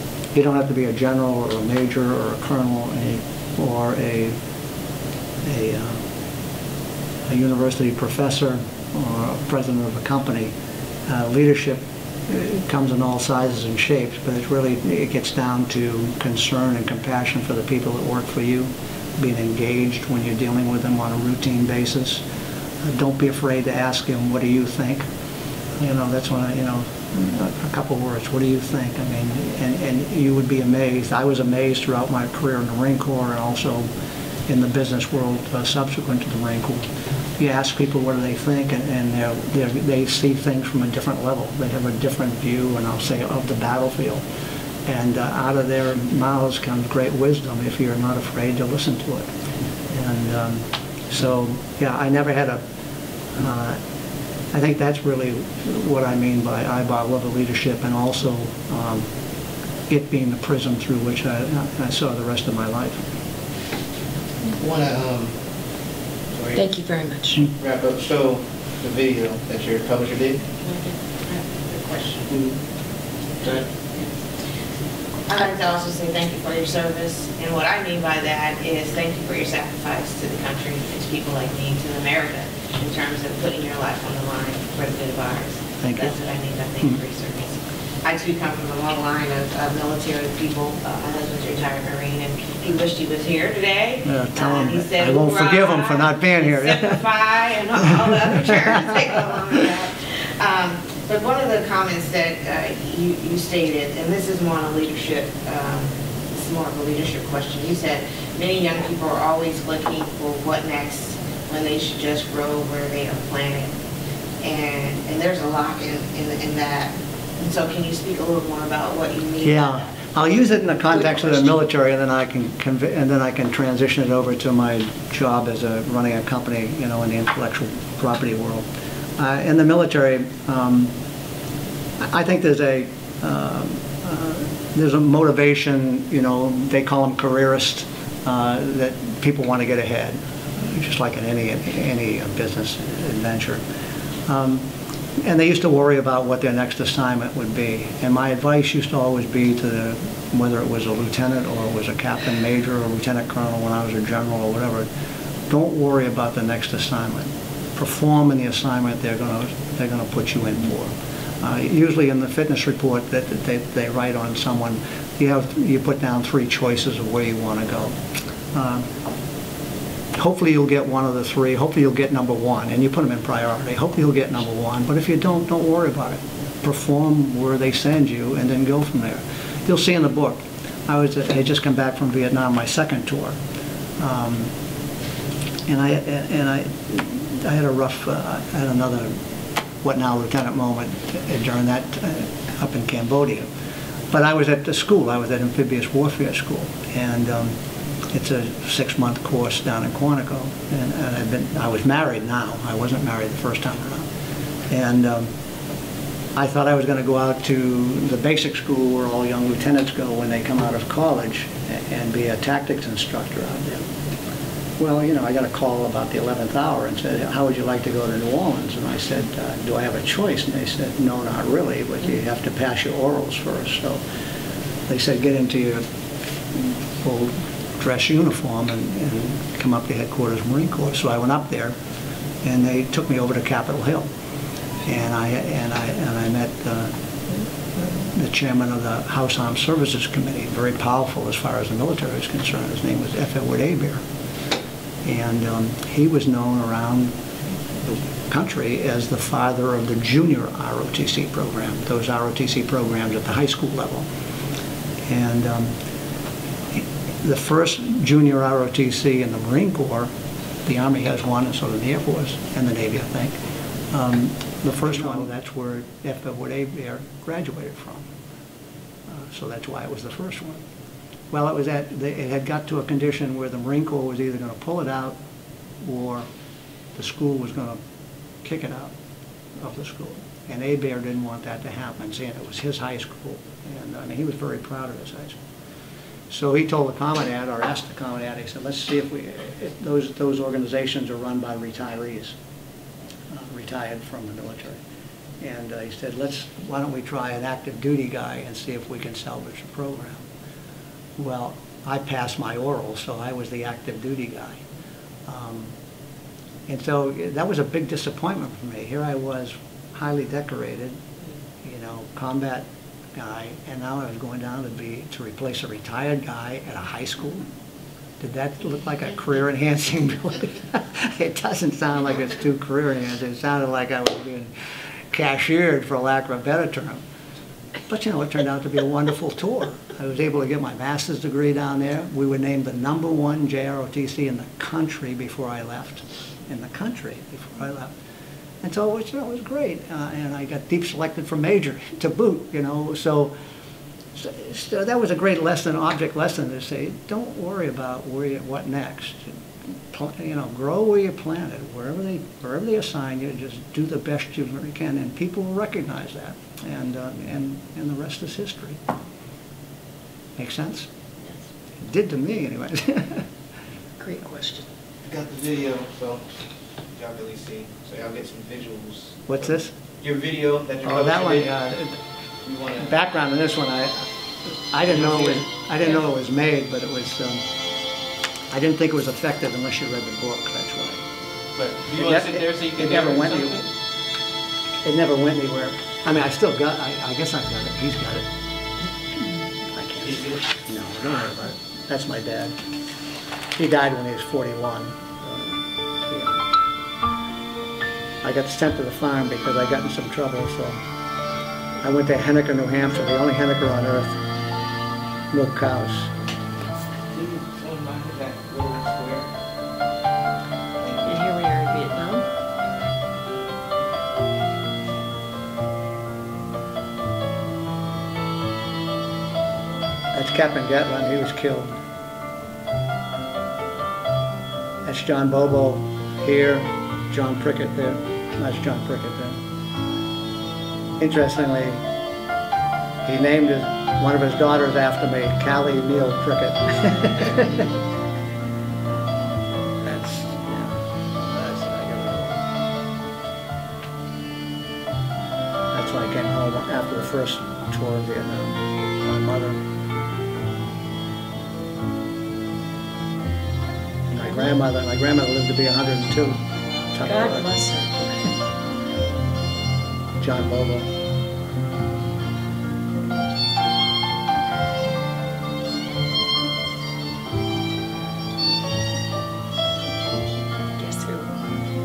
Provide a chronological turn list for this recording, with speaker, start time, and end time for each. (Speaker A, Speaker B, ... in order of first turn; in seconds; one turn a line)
Speaker A: 0.3-4.4
Speaker A: 5.4-6.1
Speaker A: 7.3-10.5
Speaker A: 11.1-22.2
Speaker A: 22.8-25.1
Speaker A: 25.8-33.9
Speaker A: 34.5-44.2
Speaker A: 44.9-49.3
Speaker A: 49.9-52.6
Speaker A: 53.3-53.8
Speaker A: 54.5-59.1
Speaker A: 59.9-63.0
Speaker B: 64.5-65.4
Speaker B: 66.3-66.6
Speaker C: 66.5-67.5
Speaker B: 67.6-70.5
Speaker D: 70.6-72.3
Speaker B: 72.3-72.5
Speaker B: 73.4-73.7
Speaker D: 75.3-113.7
Speaker A: 85.8-86.1
Speaker A: 94.0-97.0
Speaker A: 98.1-99.1
Speaker D: 114.4-119.9
Speaker A: 119.4-128.7
Speaker A: 129.2-130.9
Speaker A: 132.0-143.6
Speaker A: 144.2-144.7
Speaker A: 145.2-154.9
Speaker A: 155.5-168.0
Speaker A: 168.5-168.9
Speaker A: 170.1-183.4
Speaker A: 184.0-184.5
Speaker A: 185.7-189.2
Speaker A: 189.8-193.5
Speaker A: 194.1-197.6
Speaker A: 198.1-204.1
Speaker A: 204.7-205.3
Speaker A: 206.3-213.8
Speaker A: 214.8-224.0
Speaker A: 224.9-225.8
Speaker A: 226.5-231.8
Speaker A: 232.4-234.1
Speaker A: 234.8-236.9
Speaker A: 237.8-244.0
Speaker A: 245.0-247.1
Speaker A: 247.8-254.1
Speaker A: 255.1-255.7
Speaker A: 256.7-260.1
Speaker A: 260.6-263.4
Speaker A: 263.9-268.1
Speaker A: 269.1-270.6
Speaker A: 271.3-275.2
Speaker A: 275.8-276.3
Speaker A: 276.9-277.8
Speaker A: 278.4-278.9
Speaker A: 279.6-285.4
Speaker A: 286.3-292.4
Speaker A: 293.3-294.8
Speaker A: 295.4-300.2
Speaker A: 301.1-304.6
Speaker A: 305.2-305.7
Speaker A: 306.7-311.0
Speaker A: 311.6-317.5
Speaker A: 318.2-324.5
Speaker A: 325.1-327.0
Speaker A: 327.9-337.9
Speaker A: 338.6-343.3
Speaker A: 344.1-358.8
Speaker A: 360.4-360.9
Speaker A: 361.8-363.3
Speaker C: 364.0-364.7
Speaker B: 365.0-366.3
Speaker B: 367.0-371.6
Speaker A: 369.3-369.7
Speaker A: 370.8-372.0
Speaker B: 372.4-372.9
Speaker A: 372.8-377.4
Speaker B: 374.9-375.5
Speaker A: 378.5-381.0
Speaker B: 381.6-383.7
Speaker A: 381.9-383.6
Speaker A: 384.8-388.3
Speaker A: 389.7-392.6
Speaker B: 390.0-390.4
Speaker A: 393.6-396.4
Speaker A: 398.2-400.8
Speaker A: 401.8-404.2
Speaker A: 405.3-406.1
Speaker B: 407.1-409.3
Speaker B: 410.8-411.2
Speaker C: 411.0-412.2
Speaker A: 420.1-421.7
Speaker A: 424.8-429.4
Speaker A: 431.0-431.8
Speaker A: 433.1-437.7
Speaker A: 439.8-442.5
Speaker A: 445.7-449.6
Speaker A: 454.1-457.5
Speaker C: 456.7-458.3
Speaker A: 460.2-460.9
Speaker C: 470.8-471.5